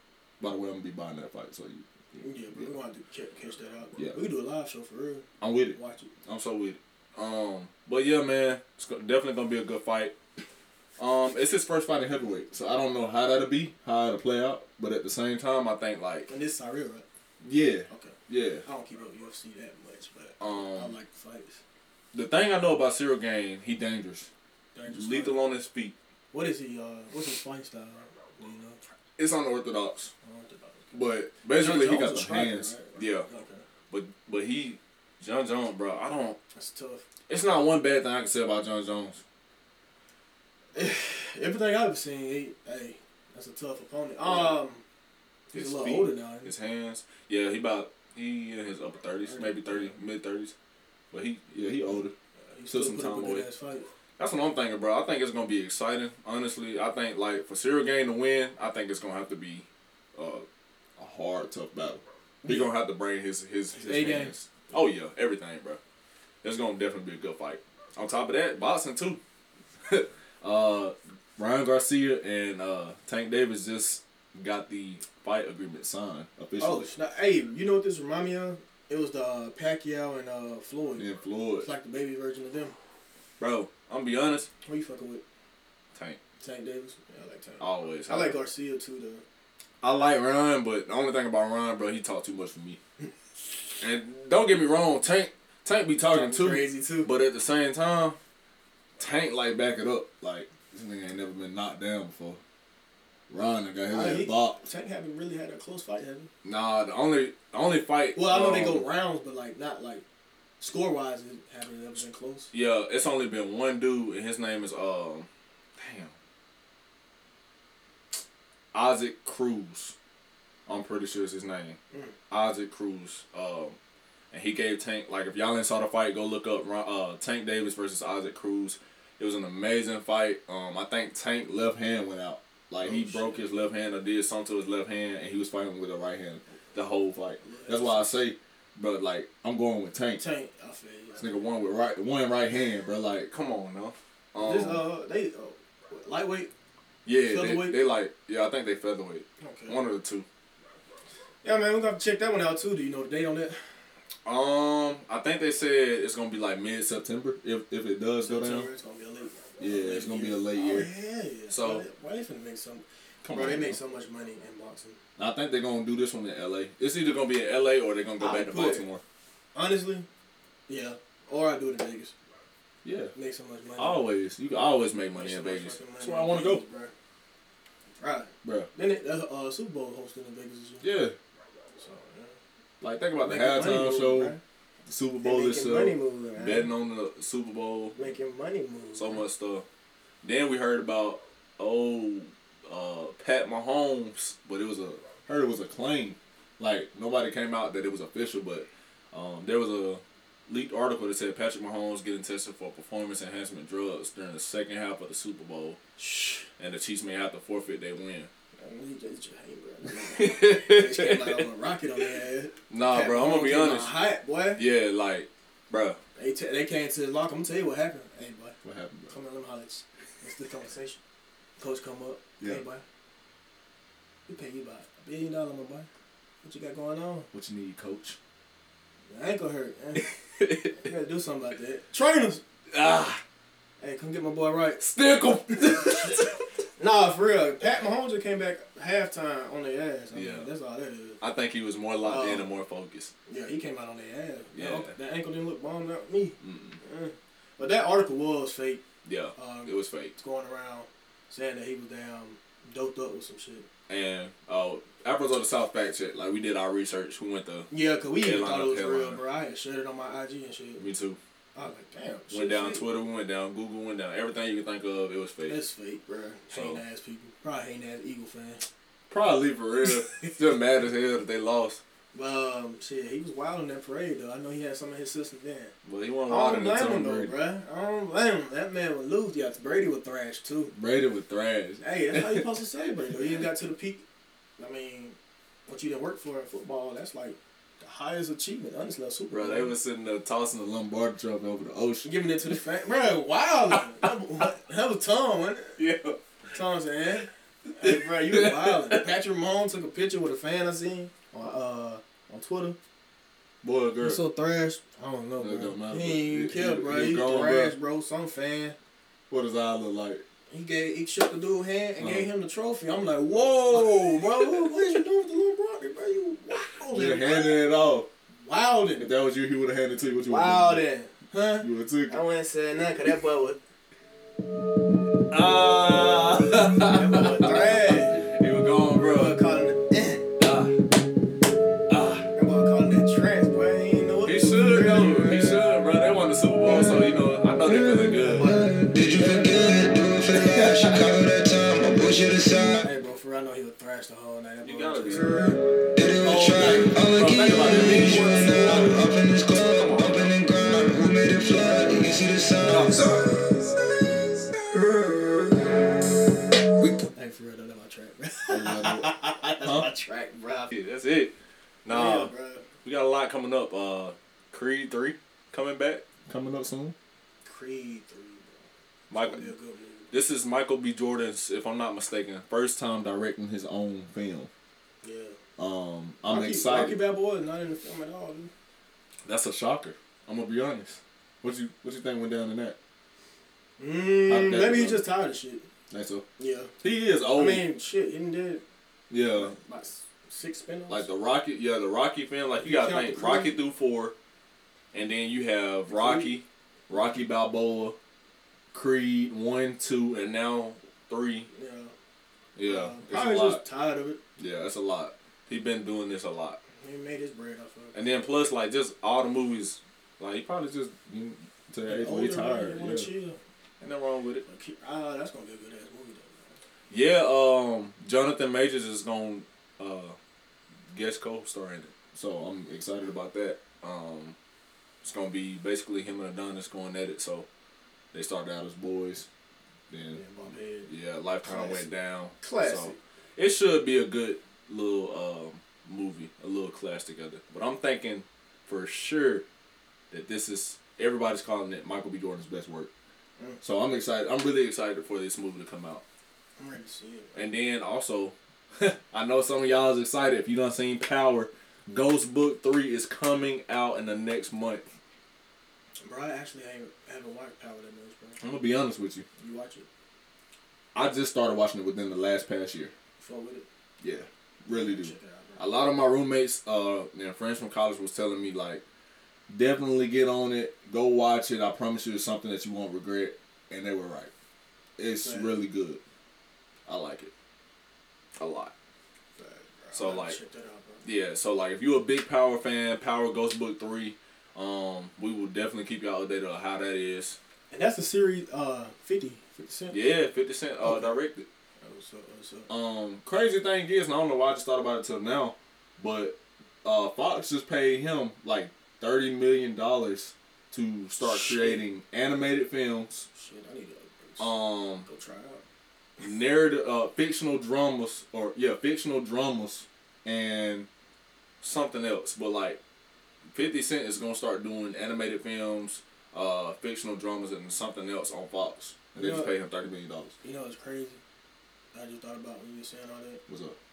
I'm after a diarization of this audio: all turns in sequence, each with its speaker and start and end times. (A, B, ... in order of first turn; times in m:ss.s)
0:00.4-0:02.7 A
0:02.1-0:06.1 B
0:05.4-0:10.1 A
0:11.0-0:16.3 A
0:16.3-0:17.0 B
0:17.4-0:18.6 A
0:17.9-0:21.6 B
0:20.4-0:20.9 A
0:22.1-0:24.3 A
0:24.7-0:25.5 B
0:24.9-0:26.0 A
0:26.3-0:28.8 B
0:29.2-0:30.1 A
0:30.2-0:31.0 B
0:30.9-0:33.3 A
0:31.5-0:33.6 B
0:33.9-0:36.4 A
0:36.5-0:37.0 B
0:37.3-0:39.2 A
0:40.7-0:44.8 B
0:44.2-0:44.6 A
0:45.5-0:46.5 B
0:45.5-0:50.5 A
0:49.2-0:50.0 B
0:51.1-0:52.1 A
0:52.5-0:53.9 B
0:52.7-0:53.5 A
0:54.2-1:00.4 A
1:01.0-1:05.8 A
1:02.4-1:02.7 B
1:03.7-1:04.3 B
1:06.4-1:09.2 A
1:09.8-1:16.9 A
1:16.6-1:21.1 B
1:21.0-1:21.7 A
1:21.6-1:22.7 B
1:23.4-1:24.5 A
1:24.6-1:25.2 B
1:25.9-1:26.2 A
1:26.4-1:29.2 B
1:27.6-1:28.4 A
1:29.8-1:32.8 A
1:33.8-1:38.2 A
1:36.0-1:37.1 B
1:39.0-1:42.4 A
1:43.3-1:44.6 A
1:43.9-1:46.3 B
1:46.4-1:48.8 A
1:48.1-1:50.0 B
1:50.6-1:52.5 B
1:52.5-1:56.1 A
1:58.7-1:59.9 A
2:00.7-2:01.8 A
2:02.3-2:03.8 A
2:04.3-2:20.2 A
2:12.8-2:13.4 B
2:17.4-2:18.2 B
2:20.2-2:21.3 B
2:21.2-2:24.8 A
2:24.4-2:26.5 B
2:27.0-2:30.2 A
2:27.2-2:27.8 B
2:29.4-2:29.8 B
2:31.4-2:33.6 B
2:34.2-2:38.7 A
2:38.2-2:45.0 B
2:39.6-2:40.9 A
2:41.5-2:41.8 A
2:43.2-2:43.8 A
2:45.2-2:49.0 A
2:48.2-2:48.9 B
2:49.5-2:50.1 B
2:50.7-2:52.1 B
2:52.8-2:53.1 A
2:53.1-2:54.0 B
2:53.8-2:56.6 A
2:55.1-2:56.9 B
2:58.0-3:00.9 B
2:58.4-2:58.7 A
3:00.8-3:01.2 A
3:01.8-3:02.3 B
3:02.8-3:08.0 A
3:03.2-3:04.4 B
3:05.2-3:06.7 B
3:08.0-3:09.2 B
3:08.9-3:09.6 A
3:10.2-3:25.8 A
3:26.0-3:26.5 B
3:26.6-3:28.3 A
3:28.6-3:34.6 B
3:29.9-3:31.5 A
3:32.7-3:34.0 A
3:34.6-3:36.0 A
3:36.2-3:41.0 B
3:38.6-3:39.2 A
3:41.6-3:42.8 B
3:44.3-3:45.9 B
3:46.4-3:47.3 B
3:47.3-3:48.2 A
3:49.1-3:50.1 B
3:50.0-3:50.8 A
3:50.7-3:52.4 B
3:52.7-3:53.2 A
3:53.8-3:54.8 B
3:54.8-3:56.5 A
3:55.5-3:56.2 B
3:56.8-4:01.2 B
4:00.1-4:00.5 A
4:01.2-4:03.1 A
4:02.0-4:02.5 B
4:03.3-4:08.8 B
4:04.5-4:04.9 A
4:06.4-4:06.8 A
4:09.0-4:10.1 A
4:09.4-4:13.7 B
4:13.9-4:19.2 A
4:17.7-4:20.8 B
4:20.8-4:21.2 A
4:21.5-4:22.8 B
4:22.3-4:25.6 A
4:25.5-4:28.6 B
4:26.5-4:26.8 A
4:29.1-4:31.8 A
4:32.1-4:35.7 B
4:35.8-4:37.4 A
4:36.3-4:40.7 B
4:40.7-4:42.5 A
4:41.8-4:44.0 B
4:44.6-4:49.7 B
4:49.3-4:52.6 A
4:52.0-4:55.8 B
4:53.7-4:54.1 A
4:55.8-4:56.2 A
4:56.5-5:02.8 B
4:57.7-4:59.1 A
5:03.6-5:04.2 A
5:04.0-5:08.8 B
5:05.4-5:07.7 A
5:09.3-5:10.2 A
5:10.5-5:17.6 B
5:12.0-5:12.3 A
5:13.7-5:14.9 A
5:16.5-5:18.1 A
5:18.4-5:19.1 B
5:19.0-5:20.8 A
5:20.2-5:23.6 B
5:21.6-5:22.2 A
5:25.3-5:29.4 A
5:26.8-5:28.3 B
5:28.9-5:30.3 B
5:30.4-5:30.8 A
5:31.9-5:32.3 A
5:32.3-5:35.6 B
5:34.2-5:38.6 A
5:37.9-5:42.8 C
5:38.3-5:38.7 B
5:40.3-5:41.1 A
5:42.8-5:45.6 B
5:44.6-5:45.6 A
5:45.9-5:53.6 C
5:46.2-5:49.0 A
5:49.7-5:50.3 A
5:54.6-5:55.5 C
5:57.1-6:00.8 B
5:58.5-5:59.9 A
6:00.7-6:02.3 A
6:01.9-6:02.6 B
6:02.8-6:06.9 A
6:07.4-6:10.1 B
6:09.1-6:09.5 A
6:10.1-6:14.5 A
6:15.0-6:15.4 B
6:15.6-6:17.0 A
6:16.3-6:18.5 B
6:19.2-6:22.8 A
6:23.8-6:25.7 B
6:24.3-6:25.0 A
6:25.9-6:26.2 A
6:26.4-6:26.7 B
6:26.8-6:27.6 A
6:27.3-6:28.6 B
6:29.1-6:29.5 A
6:29.3-6:31.1 B
6:30.9-6:34.1 A
6:32.6-6:33.6 B
6:34.9-6:38.0 A
6:35.9-6:36.3 B
6:38.7-6:41.5 A
6:41.5-6:41.9 B
6:42.6-6:43.6 A
6:42.6-6:44.2 B
6:44.4-6:46.6 A
6:46.8-6:48.0 B
6:47.9-6:53.1 A
6:51.8-6:53.4 B
6:53.8-6:54.4 A
6:54.4-6:56.6 B
6:56.9-7:00.2 A
7:00.9-7:04.4 A
7:05.0-7:07.5 A
7:08.1-7:09.3 A
7:09.9-7:10.2 A
7:10.1-7:10.9 B
7:10.9-7:19.4 A
7:11.4-7:13.0 B
7:20.1-7:22.9 A
7:23.6-7:26.0 A
7:26.6-7:27.4 B
7:27.3-7:34.8 A
7:36.0-7:38.4 B
7:38.4-7:39.2 A
7:39.4-7:39.9 B
7:40.9-7:42.9 A
7:43.2-7:43.6 B
7:44.0-7:48.8 A
7:44.7-7:45.6 B
7:49.5-7:54.3 A
7:55.0-7:56.0 A
7:55.2-7:55.6 B
7:56.8-7:57.3 A
7:58.4-7:58.7 A
7:59.4-8:01.0 B
7:59.9-8:00.4 A
8:01.0-8:07.4 A
8:07.7-8:10.0 B
8:09.9-8:11.4 A
8:10.8-8:11.2 B
8:11.8-8:12.7 B
8:12.7-8:23.3 A
8:21.2-8:21.8 B
8:23.3-8:25.6 B
8:24.4-8:25.1 A
8:26.2-8:30.9 A
8:31.6-8:32.8 A
8:33.5-8:40.3 A
8:39.1-8:39.5 B
8:40.4-8:41.2 B
8:41.9-8:43.4 B
8:43.5-8:43.8 A